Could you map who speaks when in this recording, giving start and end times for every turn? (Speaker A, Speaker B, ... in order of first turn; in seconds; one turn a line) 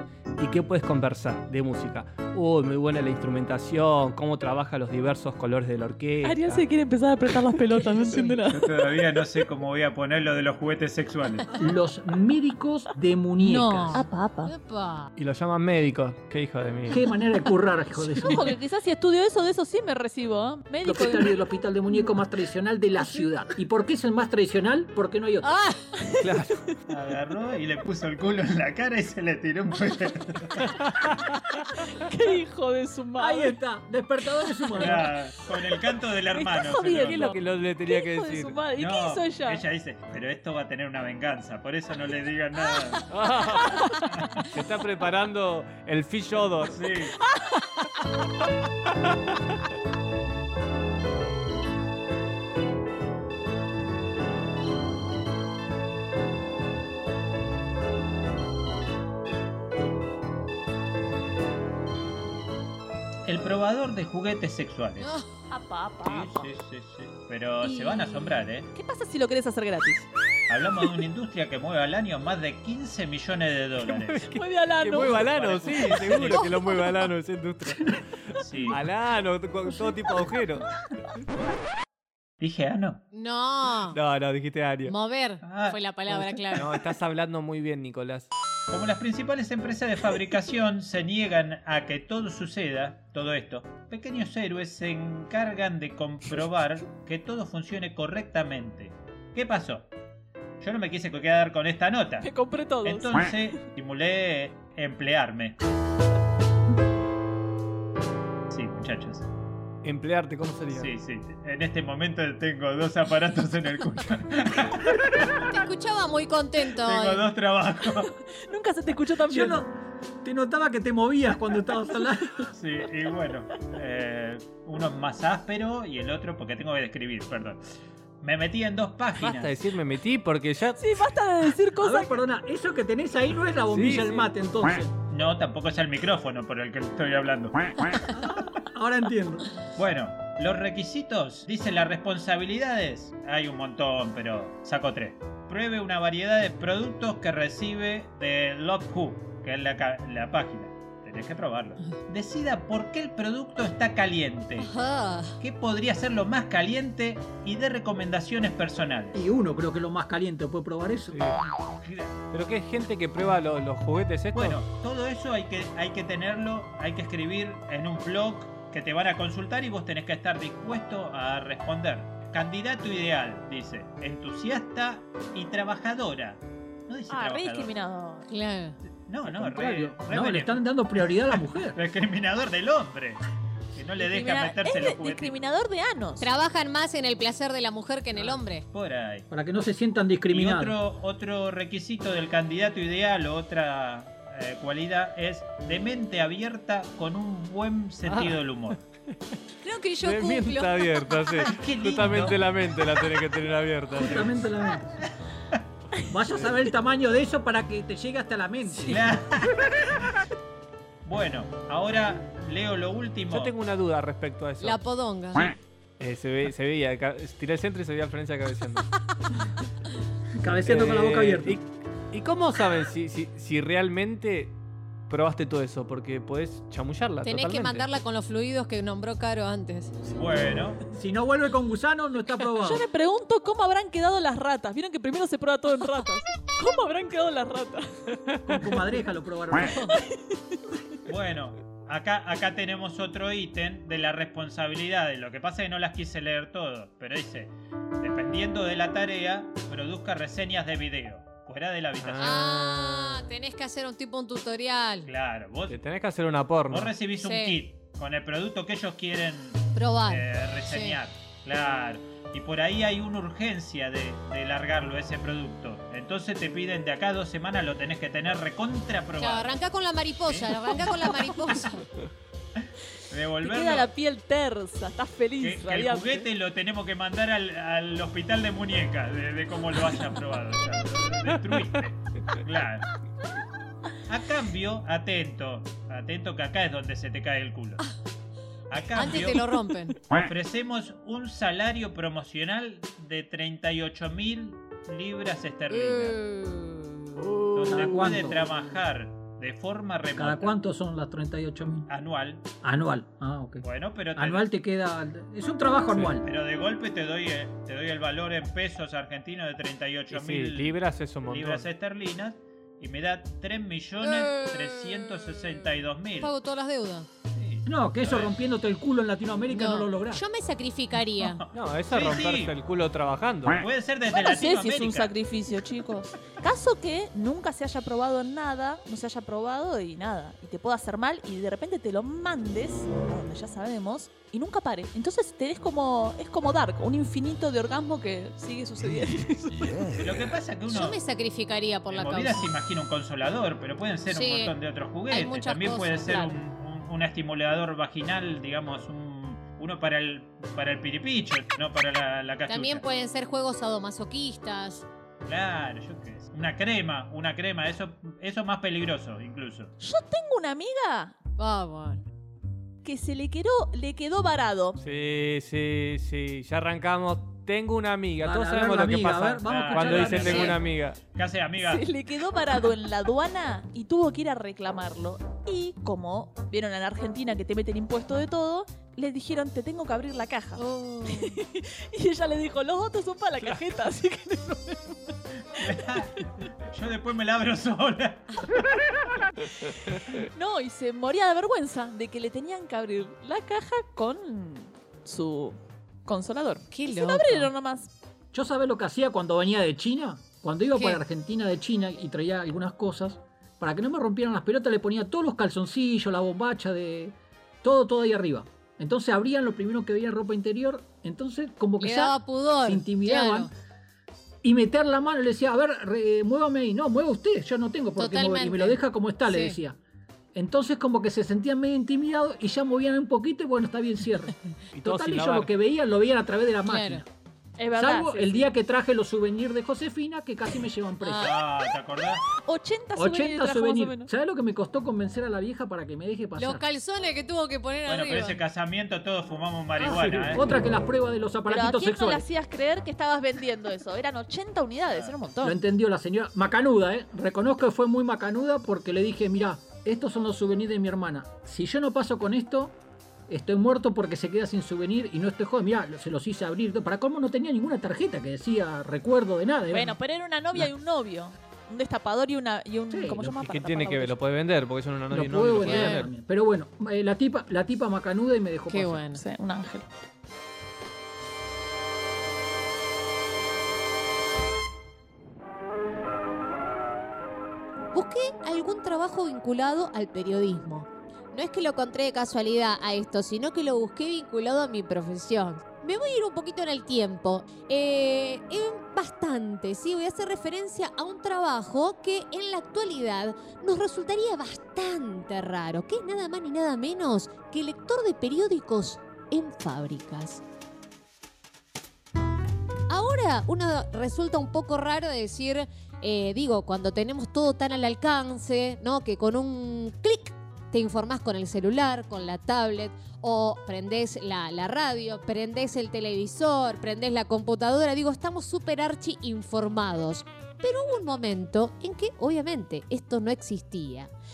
Speaker A: 0.4-6.6
Speaker B: 6.2-8.6
Speaker C: 7.9-8.3
Speaker D: 8.5-11.4
Speaker E: 11.5-13.9
Speaker C: 13.4-15.1
Speaker B: 13.9-14.5
Speaker A: 15.2-17.0
Speaker E: 16.9-18.5
Speaker B: 18.2-21.4
Speaker E: 20.8-25.6
Speaker C: 25.4-25.8
Speaker B: 26.0-26.7
Speaker A: 26.2-26.5
Speaker D: 26.9-30.6
Speaker A: 31.1-31.4
Speaker B: 31.4-33.5
Speaker E: 33.2-35.1
Speaker B: 34.2-34.8
Speaker D: 34.9-37.2
Speaker B: 35.9-39.6
Speaker A: 36.8-38.6
Speaker D: 38.8-43.1
Speaker A: 43.1-43.9
Speaker B: 43.2-44.0
Speaker D: 44.1-44.5
Speaker A: 44.5-46.8
Speaker D: 46.7-47.1
Speaker B: 47.2-47.8
Speaker D: 63.2-65.1
Speaker C: 65.0-65.3
Speaker B: 65.5-66.5
Speaker D: 66.2-68.7
Speaker B: 68.7-70.1
Speaker D: 70.5-74.3
Speaker A: 73.8-80.7
Speaker B: 74.3-76.0
Speaker D: 75.1-76.5
Speaker C: 76.2-76.8
Speaker D: 78.4-78.7
Speaker D: 82.4-83.0
Speaker C: 83.1-84.0
Speaker A: 83.9-85.0
Speaker C: 84.8-86.8
Speaker D: 85.4-85.8
Speaker A: 86.1-88.3
Speaker D: 88.7-99.9
Speaker D: 100.6-102.3
Speaker B: 102.2-103.7
Speaker D: 102.8-105.6
Speaker D: 108.5-109.3
Speaker A: 109.8-110.9
Speaker D: 110.8-115.4
Speaker C: 115.5-117.3
Speaker D: 116.8-118.1
Speaker B: 117.8-119.7
Speaker E: 119.3-119.7
Speaker E: 120.2-122.5
Speaker D: 122.5-127.6
Speaker D: 128.2-129.6
Speaker A: 129.2-130.8
Speaker B: 130.8-132.2
Speaker E: 131.8-134.9
Speaker A: 133.7-134.3
Speaker D: 135.1-138.1
Speaker E: 138.1-139.5
Speaker D: 139.7-154.7
Speaker C: 154.6-155.4
Speaker D: 155.4-159.2
Speaker E: 159.1-161.2
Speaker A: 161.1-161.4
Speaker D: 161.8-162.2
Speaker A: 162.3-164.6
Speaker D: 164.3-177.7
Speaker B: 177.1-178.3
Speaker C: 178.3-178.8
Speaker D: 179.0-180.7
Speaker E: 179.2-181.8
Speaker D: 181.2-183.2
Speaker D: 183.7-185.3
Speaker B: 184.0-186.3
Speaker C: 186.2-188.6
Speaker D: 188.7-189.2
Speaker E: 189.3-190.7
Speaker D: 190.3-198.8
Speaker A: 198.1-198.4
Speaker C: 199.6-201.5
Speaker A: 200.0-204.3
Speaker D: 201.4-202.5
Speaker E: 203.9-204.8
Speaker E: 206.1-209.0
Speaker A: 206.2-206.7
Speaker D: 208.8-210.2
Speaker D: 211.0-213.6
Speaker A: 213.3-214.8
Speaker C: 214.6-215.5
Speaker A: 216.0-218.9
Speaker E: 220.4-221.6
Speaker A: 220.6-224.6
Speaker A: 225.1-227.8
Speaker C: 227.2-229.9
Speaker D: 230.1-230.8
Speaker E: 230.8-232.8
Speaker B: 232.6-238.2
Speaker A: 238.3-238.7
Speaker E: 238.4-239.8
Speaker B: 239.8-240.6
Speaker D: 241.1-252.5
Speaker A: 252.0-253.2
Speaker C: 252.2-255.1
Speaker D: 255.0-255.8
Speaker A: 255.7-256.9
Speaker D: 256.7-269.5
Speaker C: 257.2-257.6
Speaker C: 259.7-261.0
Speaker C: 269.2-271.8
Speaker D: 270.2-271.1
Speaker D: 273.1-273.9
Speaker B: 273.4-276.3
Speaker D: 275.4-282.9
Speaker D: 284.1-287.8
Speaker D: 288.7-289.5
Speaker C: 288.9-290.0
Speaker D: 290.1-296.2
Speaker C: 295.7-297.0
Speaker A: 297.2-297.8
Speaker D: 297.5-300.6
Speaker E: 297.7-298.4
Speaker E: 300.2-301.9
Speaker D: 301.9-302.5
Speaker E: 302.6-306.2
Speaker D: 303.6-304.4
Speaker D: 306.2-316.3
Speaker A: 310.1-311.7
Speaker C: 314.0-315.6
Speaker C: 316.2-317.1
Speaker D: 317.3-318.4
Speaker E: 317.6-320.2
Speaker C: 319.5-321.4
Speaker D: 321.2-322.6
Speaker A: 321.5-323.6
Speaker D: 323.6-325.1
Speaker B: 324.1-339.9
Speaker D: 340.0-341.0
Speaker C: 340.7-342.4
Speaker D: 341.9-352.8
Speaker C: 344.1-344.5
Speaker C: 345.1-346.4
Speaker C: 352.5-354.8
Speaker D: 355.2-359.7
Speaker B: 359.8-361.1
Speaker C: 361.4-362.0
Speaker B: 362.8-364.8
Speaker A: 364.8-371.0
Speaker E: 368.2-370.5
Speaker D: 369.5-370.5
Speaker B: 370.2-370.6
Speaker D: 371.1-371.8
Speaker B: 371.6-386.2
Speaker C: 380.6-381.4
Speaker D: 385.6-388.7
Speaker B: 389.4-397.9
Speaker C: 396.7-397.5
Speaker E: 398.3-413.5
Speaker C: 400.7-401.0
Speaker C: 411.8-413.5
Speaker E: 414.4-419.8
Speaker C: 418.0-419.6
Speaker E: 420.3-427.1
Speaker A: 424.7-425.5
Speaker C: 426.6-427.0
Speaker B: 427.6-428.5
Speaker E: 427.7-431.3
Speaker C: 431.0-431.4
Speaker D: 431.2-432.2
Speaker B: 432.3-434.1
Speaker E: 432.9-436.6
Speaker C: 436.4-438.4
Speaker D: 437.8-440.4
Speaker A: 439.8-440.4
Speaker E: 440.3-442.2
Speaker B: 441.5-445.6
Speaker E: 445.4-452.8
Speaker E: 453.3-459.9
Speaker B: 459.7-464.2
Speaker E: 462.9-463.2
Speaker A: 463.2-466.1
Speaker E: 465.1-469.0
Speaker C: 465.7-466.1
Speaker C: 468.7-469.2
Speaker B: 469.1-469.9
Speaker C: 477.9-500.4
Speaker C: 502.9-524.1